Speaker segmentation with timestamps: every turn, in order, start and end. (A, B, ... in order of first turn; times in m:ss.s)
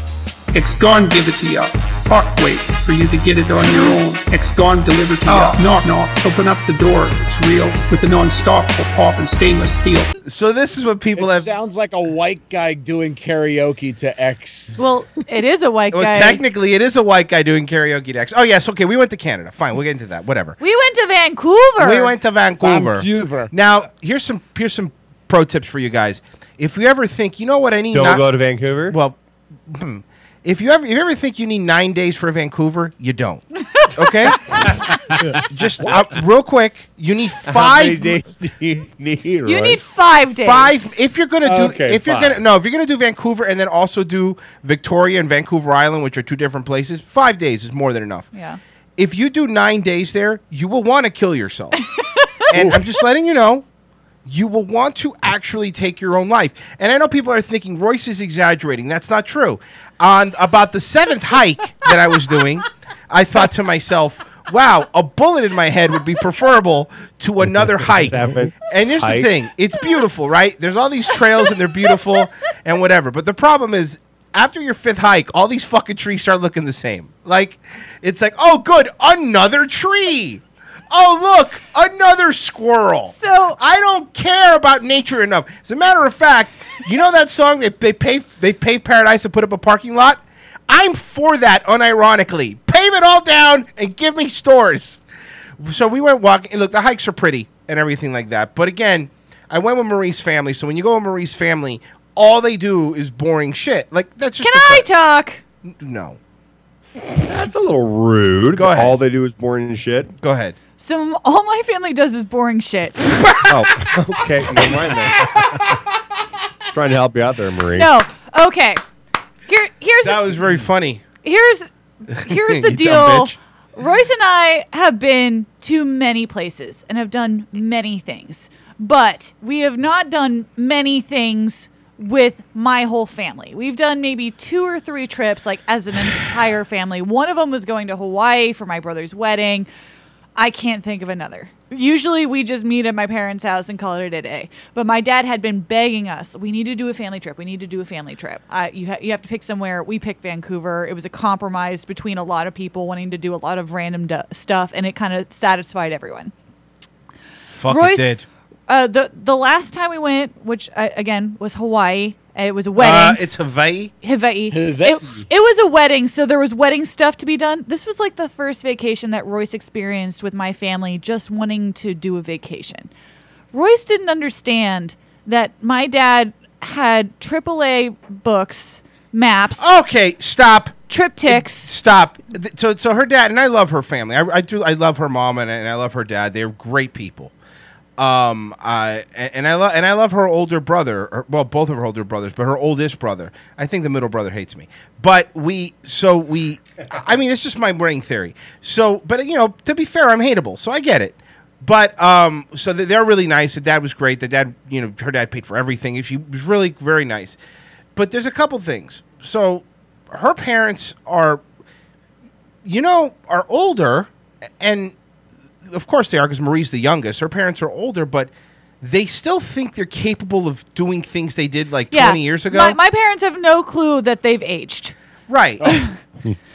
0:00.5-0:10.1 A
0:10.2-0:11.5 B
0:11.2-0:14.8 C
0:14.8-0:16.4 D
0:15.9-0:20.6 B
0:20.6-0:22.2 D
0:21.8-0:28.3 B
0:22.6-0:23.5 C
0:27.9-0:29.0 E
0:28.9-0:33.4 B
0:33.9-0:34.6 B
0:35.2-0:36.0 E
0:35.4-0:38.1 B
0:37.4-0:39.8 E
0:39.4-0:41.0 D
0:40.4-0:48.3 B
0:41.4-0:42.4 E
0:48.3-0:48.6 D
0:49.0-0:51.8 B
0:51.8-0:52.2 D
0:52.5-0:53.6 B
0:54.2-1:35.0 B
1:07.4-1:09.3 E
1:23.1-1:23.6 D
1:35.6-1:44.8 B
1:44.4-1:45.4 D
1:45.6-1:46.2 B
1:47.0-1:50.1 E
1:48.5-1:49.0 B
1:50.2-1:50.6 B
1:50.8-1:53.2 D
1:53.5-1:55.8 E
1:56.7-1:57.9 E
1:57.8-1:58.8 D
1:59.5-2:00.4 D
2:00.0-2:01.0 B
2:01.2-2:19.7 D
2:02.3-2:03.4 B
2:20.4-2:36.3 D
2:37.5-2:38.2 B
2:37.7-2:38.1 D
2:38.7-2:43.2 D
2:42.8-2:43.9 B
2:44.0-2:52.9 D
2:44.5-2:45.2 C
2:53.5-2:59.7 D
2:59.6-3:07.3 B
3:00.9-3:01.7 D
3:08.0-3:27.4 B
3:28.0-3:31.4 B
3:32.6-3:34.9 B
3:35.7-3:42.8 B
3:41.9-3:44.9 D
3:45.3-3:45.7 B
3:45.6-3:45.9 D